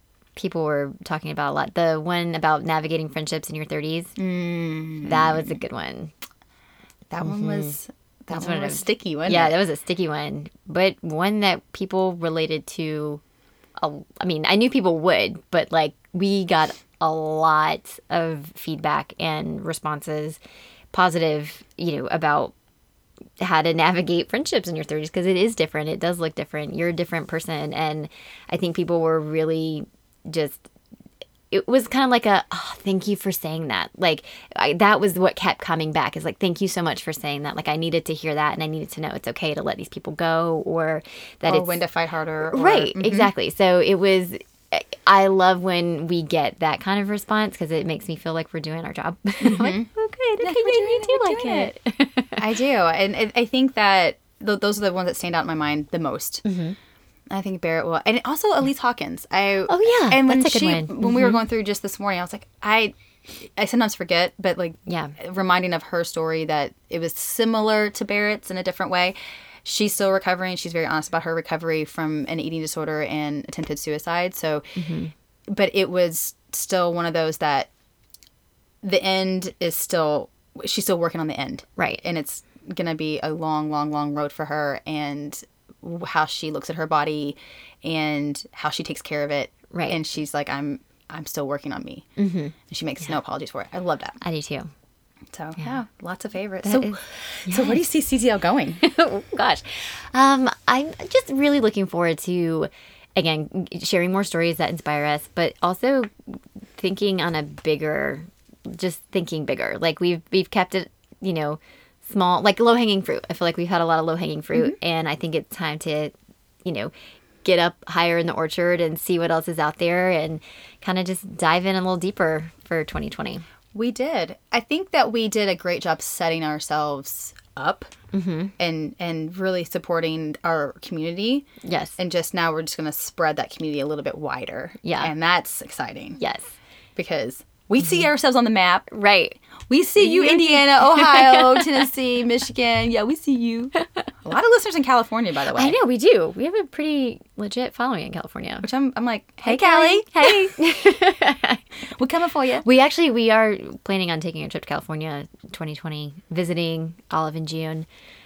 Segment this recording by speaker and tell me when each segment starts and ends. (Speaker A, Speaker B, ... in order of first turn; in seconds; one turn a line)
Speaker A: 0.4-4.2
Speaker B: 4.2-5.6
Speaker A: 5.0-6.1
Speaker B: 7.1-9.6
Speaker A: 7.2-7.8
Speaker A: 8.3-13.2
Speaker A: 13.8-20.4
Speaker A: 20.9-22.5
Speaker A: 23.4-30.6
Speaker A: 31.5-41.8
Speaker B: 41.5-43.3
Speaker A: 42.5-52.4
Speaker B: 49.4-49.9
Speaker B: 50.4-51.7
Speaker B: 52.4-56.4
Speaker A: 56.5-56.8
Speaker B: 57.3-74.7
Speaker A: 59.7-61.4
Speaker A: 64.9-65.2
Speaker A: 74.8-75.1
Speaker B: 75.5-77.7
Speaker B: 78.8-92.1
Speaker A: 89.7-90.0
Speaker A: 92.2-92.5
Speaker B: 92.7-94.2
Speaker A: 94.2-94.7
Speaker B: 95.3-98.8
Speaker A: 96.6-97.8
Speaker A: 98.8-106.1
Speaker A: 106.8-116.1
Speaker A: 116.7-116.9
Speaker A: 117.4-123.4
Speaker B: 123.7-127.9
Speaker A: 128.1-128.5
Speaker B: 128.6-136.2
Speaker A: 131.6-132.0
Speaker A: 134.8-135.1
Speaker A: 136.2-136.5
Speaker B: 137.0-138.9
Speaker A: 138.9-139.4
Speaker B: 139.7-143.7
Speaker A: 140.0-141.8
Speaker A: 143.8-144.1
Speaker B: 144.2-145.8
Speaker A: 145.6-148.7
Speaker B: 148.6-150.5
Speaker A: 149.5-151.6
Speaker B: 152.0-152.7
Speaker A: 152.6-157.9